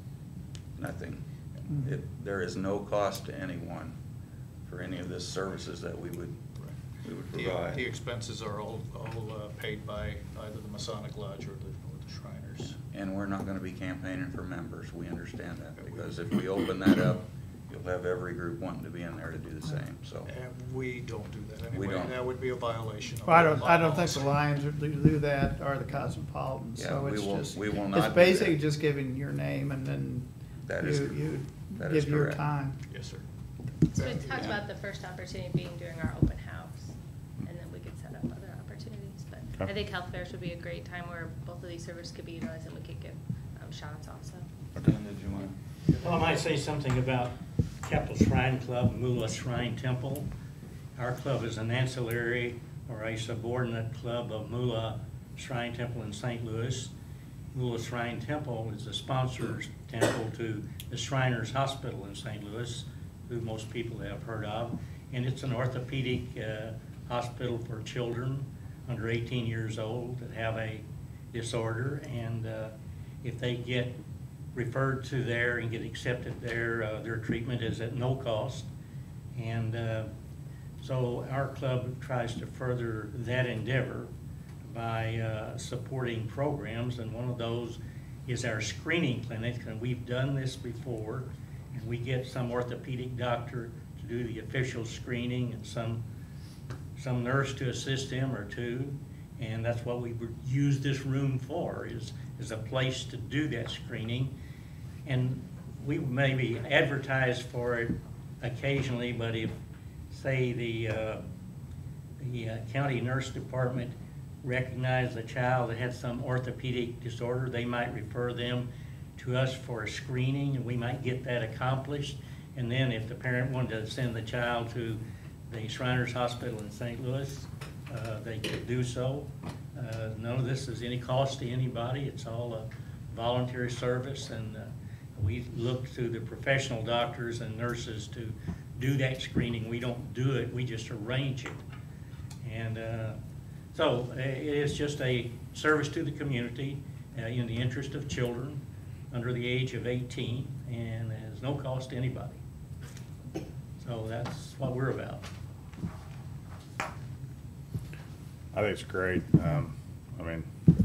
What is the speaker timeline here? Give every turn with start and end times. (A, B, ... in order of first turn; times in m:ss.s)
0:00.8-0:04.0 A
0:04.7-0:06.4 A
0:07.0-0:07.8 A
0:07.3-0:12.8 B
0:12.9-0:20.3 A
0:15.8-0:16.3 B
0:20.3-0:24.3 B
0:21.7-0:22.2 A
0:23.2-0:32.8 C
0:26.8-0:28.6 A
0:30.6-0:32.4 A
0:32.9-0:33.2 B
0:33.9-0:34.5 B
0:34.0-0:44.4 D
0:44.8-0:45.6 A
0:46.0-0:50.3 E
0:51.0-0:56.9 E
0:57.5-1:14.0 E
1:14.5-1:18.7 E
1:19.4-1:20.1 E
1:20.8-1:24.1 E
1:24.6-1:36.0 E
1:37.0-1:44.3 E
1:45.1-1:49.6 E
1:50.1-1:51.2 E
1:52.2-2:21.6 E
2:22.4-2:23.2 E
2:23.7-2:32.4 E
2:33.8-2:35.3 E
2:38.5-2:40.5 F